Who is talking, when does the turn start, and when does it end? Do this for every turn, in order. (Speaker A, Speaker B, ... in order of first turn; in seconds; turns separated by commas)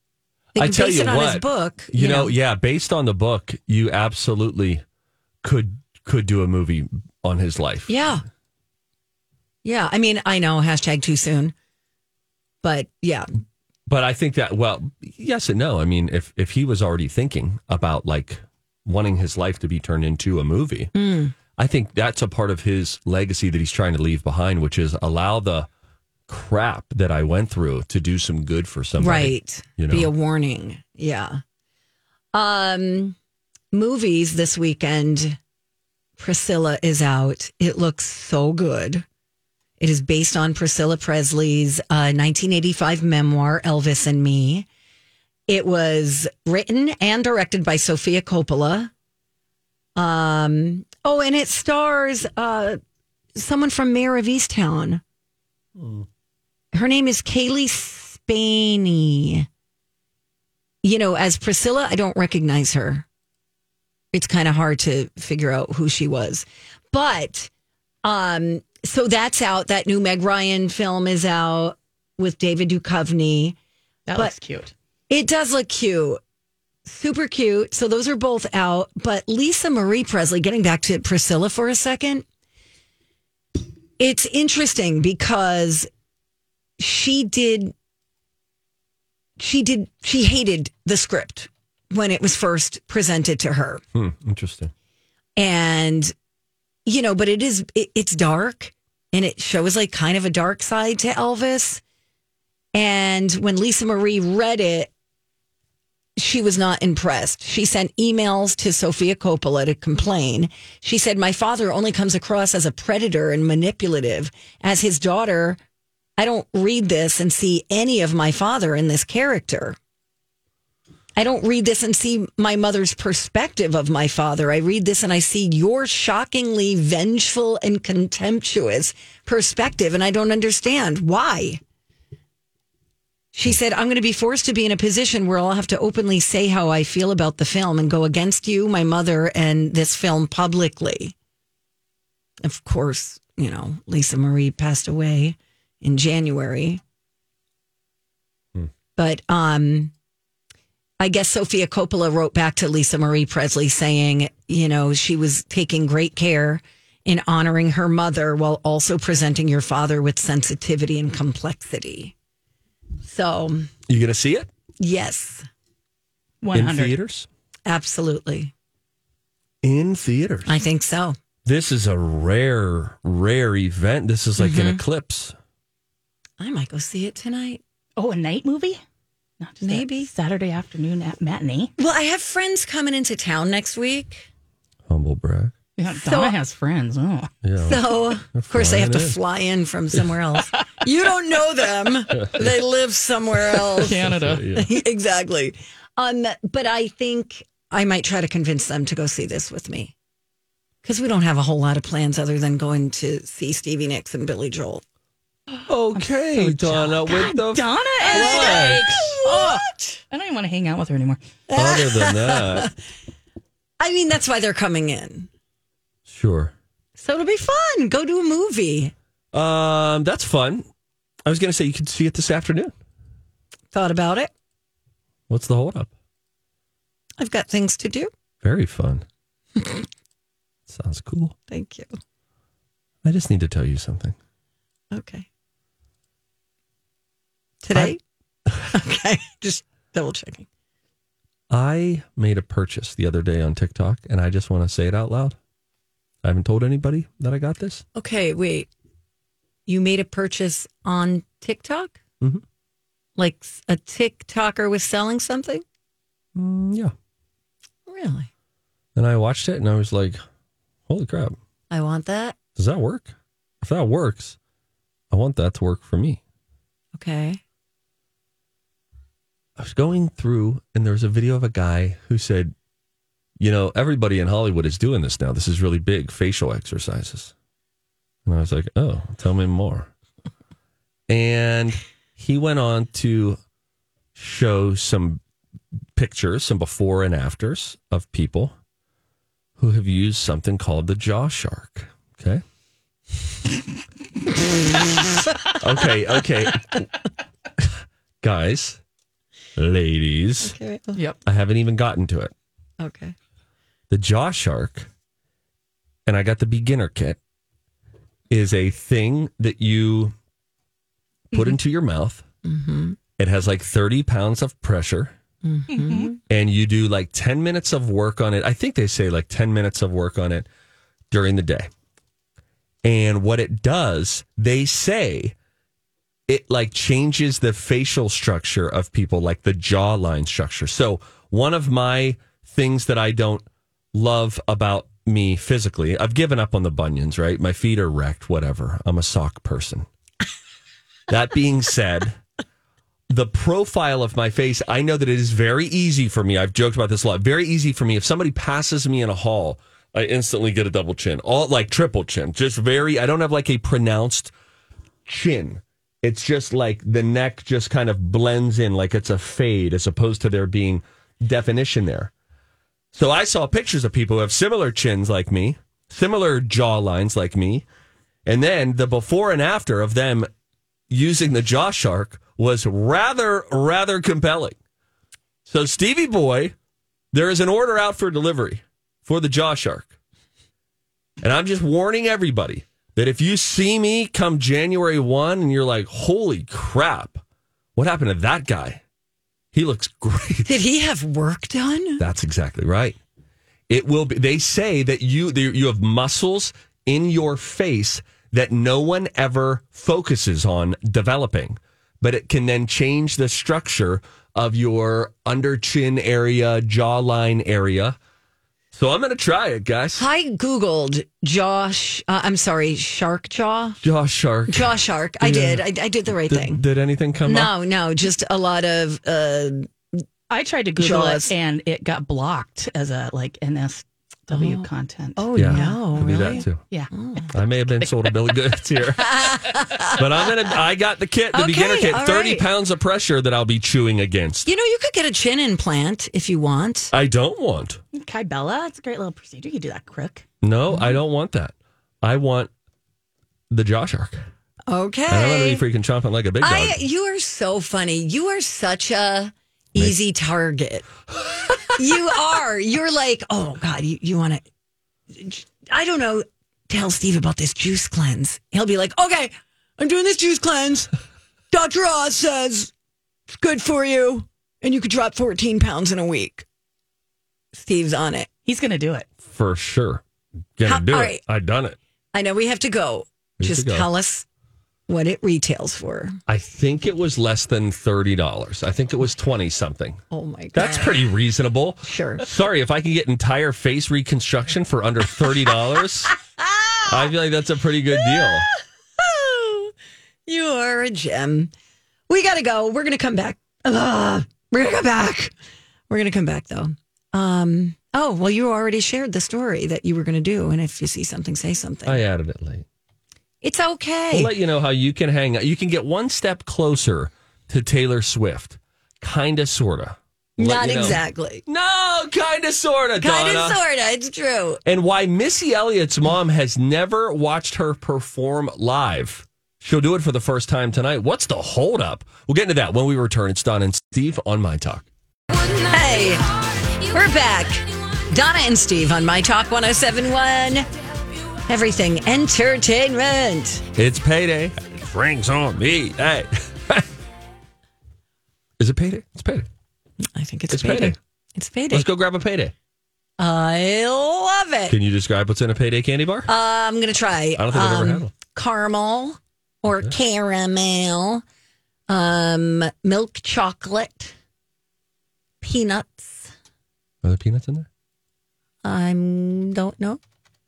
Speaker A: 0.5-2.3, Speaker B: 0.5-4.8, Speaker B: 5.4-7.9, Speaker A: 7.9-8.2, Speaker A: 9.6-11.5, Speaker A: 12.6-13.3, Speaker B: 13.9-20.9, Speaker A: 20.9-21.3, Speaker B: 21.5-25.7, Speaker B: 26.3-30.1, Speaker A: 29.0-31.4, Speaker A: 32.3-33.1, Speaker A: 33.7-35.4, Speaker A: 36.2-39.0, Speaker A: 39.8-44.7, Speaker A: 45.5-48.9, Speaker A: 50.0-52.8, Speaker A: 53.4-55.0, Speaker B: 55.8-56.0, Speaker A: 56.7-59.5, Speaker A: 60.8-63.0, Speaker A: 64.1-67.5, Speaker A: 68.0-73.5, Speaker C: 74.1-74.7, Speaker A: 75.1-76.2, Speaker A: 76.8-82.2, Speaker A: 84.0-85.9, Speaker A: 86.8-87.7, Speaker A: 89.4-93.8, Speaker B: 93.9-94.7, Speaker A: 95.4-96.1, Speaker A: 96.8-101.8, Speaker A: 102.7-104.9, Speaker A: 106.2-115.6, Speaker A: 116.2-119.8, Speaker A: 121.2-131.6, Speaker A: 133.3-141.1, Speaker A: 142.4-146.8, Speaker A: 148.9-149.9, Speaker A: 151.0-162.1, Speaker A: 163.0-163.7, Speaker B: 163.9-164.5, Speaker A: 164.8-165.4, Speaker C: 166.4-167.0, Speaker B: 166.5-167.3, Speaker A: 167.7-168.5, Speaker B: 169.6-170.6, Speaker A: 170.4-171.2, Speaker B: 171.4-175.3, Speaker A: 174.4-174.8, Speaker A: 176.4-177.6, Speaker C: 178.0-178.8, Speaker C: 179.4-181.7, Speaker A: 179.6-180.1, Speaker A: 181.8-184.2, Speaker B: 184.9-185.5, Speaker C: 185.8-187.3, Speaker A: 185.9-186.3, Speaker B: 187.4-189.2, Speaker A: 187.6-199.9, Speaker B: 192.1-192.5, Speaker C: 193.5-194.5, Speaker B: 193.9-194.7, Speaker A: 200.8-204.8, Speaker B: 205.7-209.1, Speaker C: 205.9-211.2, Speaker A: 208.0-210.0, Speaker A: 211.5-212.7, Speaker B: 211.5-212.7, Speaker A: 213.8-215.3, Speaker B: 216.1-216.5, Speaker A: 217.0-218.9, Speaker B: 219.3-220.7, Speaker B: 221.2-222.7, Speaker A: 223.7-224.3, Speaker B: 225.3-225.9, Speaker A: 227.2-228.1, Speaker B: 228.4-229.0, Speaker A: 229.6-229.8, Speaker B: 230.7-231.3, Speaker A: 231.5-231.9, Speaker B: 233.0-234.2, Speaker A: 234.9-235.2, Speaker A: 237.6-238.0, Speaker A: 238.7-240.4, Speaker B: 241.5-245.3, Speaker B: 246.2-247.8, Speaker A: 247.9-248.7, Speaker A: 249.7-252.0, Speaker A: 253.2-255.6, Speaker B: 256.4-256.9, Speaker A: 257.9-258.3, Speaker B: 258.9-260.2, Speaker B: 260.9-261.4, Speaker A: 261.7-262.4, Speaker B: 262.6-264.4, Speaker B: 265.1-266.2, Speaker A: 266.9-267.4, Speaker B: 269.6-272.5, Speaker B: 273.4-277.3, Speaker B: 278.2-279.9, Speaker B: 281.1-283.4, Speaker B: 284.1-285.2, Speaker B: 285.9-288.5, Speaker B: 289.6-292.4, Speaker B: 295.6-296.9, Speaker B: 297.6-298.8, Speaker B: 299.6-300.6, Speaker A: 300.4-301.0, Speaker B: 301.2-302.3, Speaker A: 302.8-303.1, Speaker B: 303.9-304.9, Speaker B: 306.1-307.2, Speaker B: 308.3-310.1, Speaker B: 311.3-312.2, Speaker A: 312.4-313.0, Speaker B: 313.2-315.1, Speaker A: 315.4-316.2, Speaker C: 315.7-316.1, Speaker B: 316.3-320.5, Speaker B: 321.1-321.7, Speaker B: 322.8-325.3, Speaker B: 326.3-339.9, Speaker B: 341.1-342.2, Speaker B: 343.1-354.3, Speaker B: 355.1-362.1, Speaker B: 362.9-367.6, Speaker B: 368.2-370.3, Speaker B: 370.9-374.6, Speaker B: 375.4-376.5, Speaker B: 377.1-379.9, Speaker B: 381.2-387.2, Speaker B: 387.8-388.8, Speaker B: 389.5-390.5, Speaker A: 390.4-392.0, Speaker B: 392.0-393.0, Speaker B: 393.7-408.0, Speaker B: 408.7-410.0, Speaker A: 410.0-413.8, Speaker B: 413.8-417.5, Speaker A: 414.5-416.6, Speaker A: 417.2-420.0, Speaker C: 420.3-426.9, Speaker A: 420.8-421.3, Speaker A: 424.3-427.3, Speaker B: 425.4-426.6, Speaker B: 427.3-434.5, Speaker C: 427.8-428.1, Speaker A: 429.0-430.0, Speaker A: 431.3-432.4, Speaker A: 434.4-436.9, Speaker B: 436.9-437.8, Speaker C: 437.9-440.2, Speaker B: 440.4-442.5, Speaker A: 440.7-441.0, Speaker B: 443.5-444.2, Speaker A: 444.7-445.6, Speaker B: 445.1-446.8, Speaker A: 446.4-450.9, Speaker B: 451.5-451.8, Speaker A: 451.6-454.4, Speaker A: 455.1-460.9, Speaker A: 461.5-462.7, Speaker A: 463.3-466.4, Speaker A: 467.5-468.3, Speaker C: 468.4-469.1, Speaker B: 469.2-470.0, Speaker B: 470.6-471.8, Speaker A: 470.6-471.2, Speaker A: 472.1-474.2, Speaker B: 473.4-473.9, Speaker A: 474.9-476.2, Speaker B: 476.3-480.0, Speaker A: 480.1-481.0, Speaker B: 480.5-486.1, Speaker A: 481.8-482.2, Speaker A: 486.4-487.1, Speaker B: 486.9-488.5, Speaker A: 487.9-489.7, Speaker A: 490.2-491.5, Speaker A: 492.1-495.3, Speaker A: 495.9-502.0, Speaker B: 501.8-502.6, Speaker A: 503.4-504.3, Speaker B: 504.1-513.6, Speaker A: 510.4-511.4, Speaker A: 513.0-514.6, Speaker B: 514.6-524.8, Speaker A: 525.3-530.7, Speaker A: 531.4-533.6, Speaker B: 533.7-536.9, Speaker B: 538.6-539.5, Speaker A: 540.1-541.9, Speaker B: 540.5-541.0, Speaker B: 541.7-542.5, Speaker A: 543.2-544.8, Speaker B: 544.7-546.3, Speaker A: 546.2-551.2, Speaker B: 547.4-548.1, Speaker A: 551.9-554.1, Speaker A: 555.4-556.3, Speaker B: 557.0-557.7, Speaker A: 558.6-560.0